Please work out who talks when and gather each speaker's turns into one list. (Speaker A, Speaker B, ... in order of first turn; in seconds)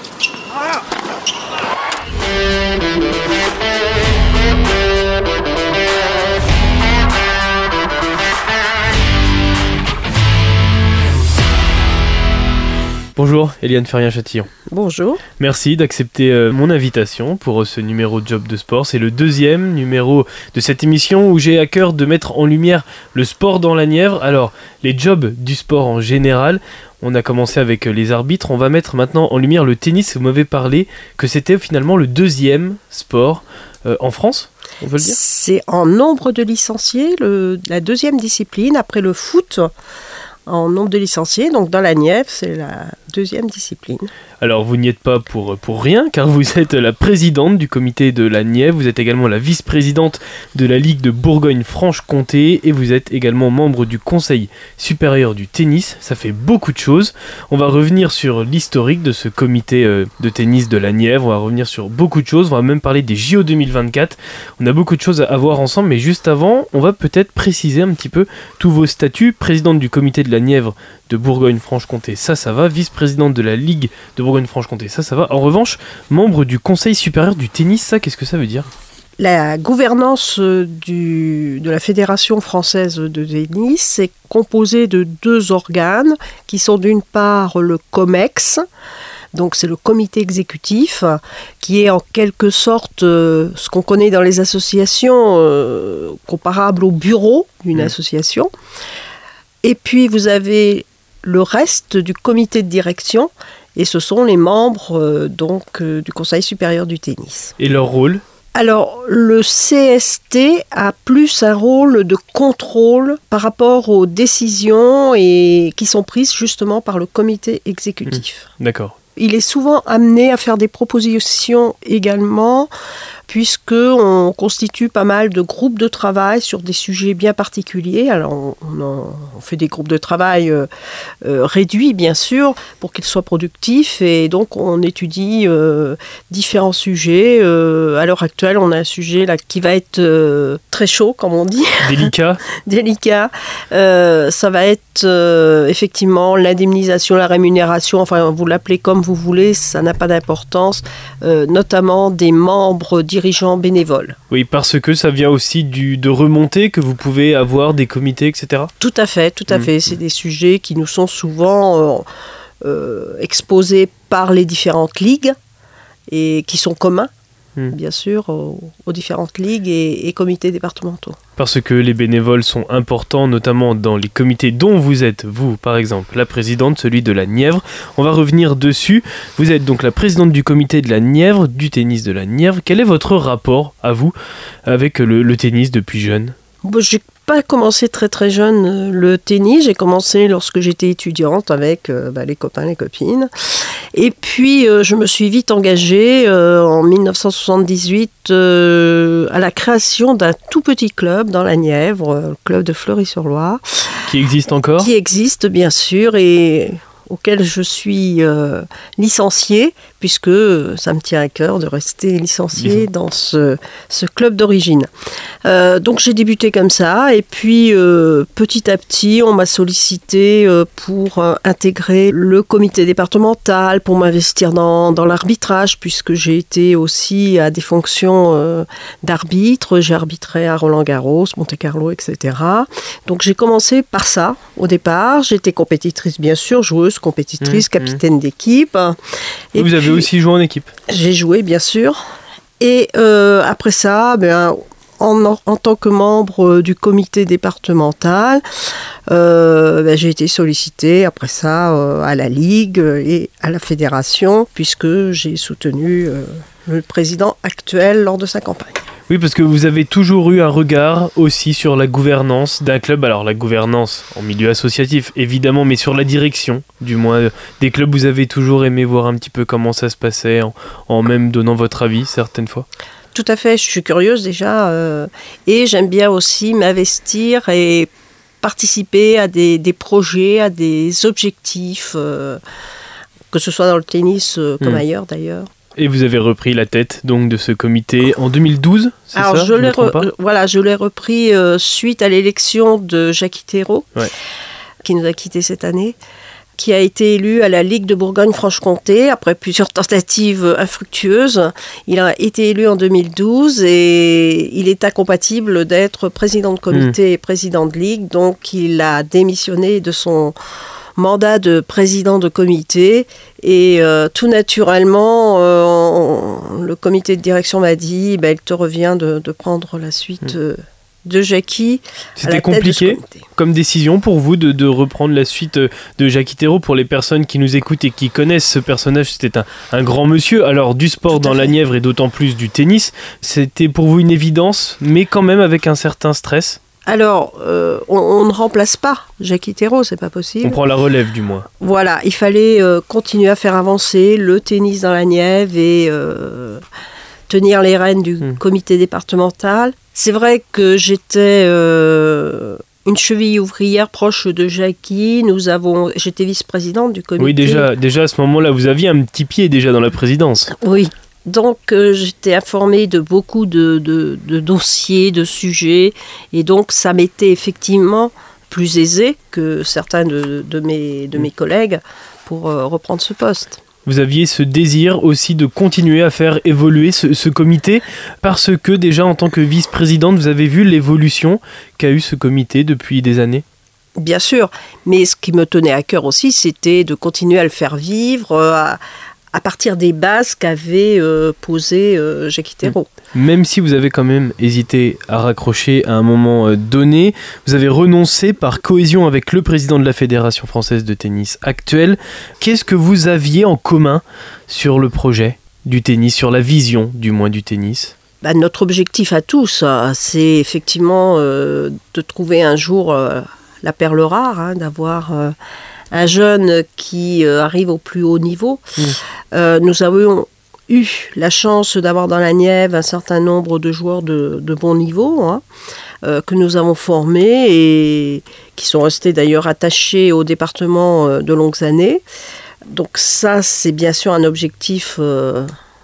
Speaker A: 13.2-14.5, 15.4-35.2, 44.4-78.7, 107.6-108.2, 118.1-119.0, 141.8-142.4, 154.3-158.7, 171.4-184.1, 184.7-186.3, 204.1-204.9, 212.6-212.9, 237.4-238.0, 239.6-240.7, 259.1-272.7, 285.8-290.1, 322.2-336.6, 340.4-341.5, 357.2-360.5, 373.9-383.4, 392.6-407.9
Speaker B: 14.7-15.2, 35.0-39.7, 40.5-44.1, 79.2-88.6, 89.3-98.5, 99.6-107.6, 108.5-118.5, 119.2-122.7, 123.3-130.7, 131.2-154.2, 158.8-162.1, 162.6-165.4, 166.1-167.1, 167.7-171.2, 186.6-204.0, 204.8-214.9, 215.4-239.0, 239.5-240.1, 240.9-242.0, 242.6-248.4, 249.1-258.9, 273.1-277.9, 278.4-282.4, 283.3-285.5, 289.1-294.0, 294.8-296.0, 296.6-310.4, 311.0-323.3, 331.1-331.6, 336.9-340.6, 341.6-346.6, 347.3-357.7, 360.5-373.6, 384.0-388.8, 389.3-392.9, 408.2-415.4, 415.9-425.4, 426.0-432.0, 432.7-435.5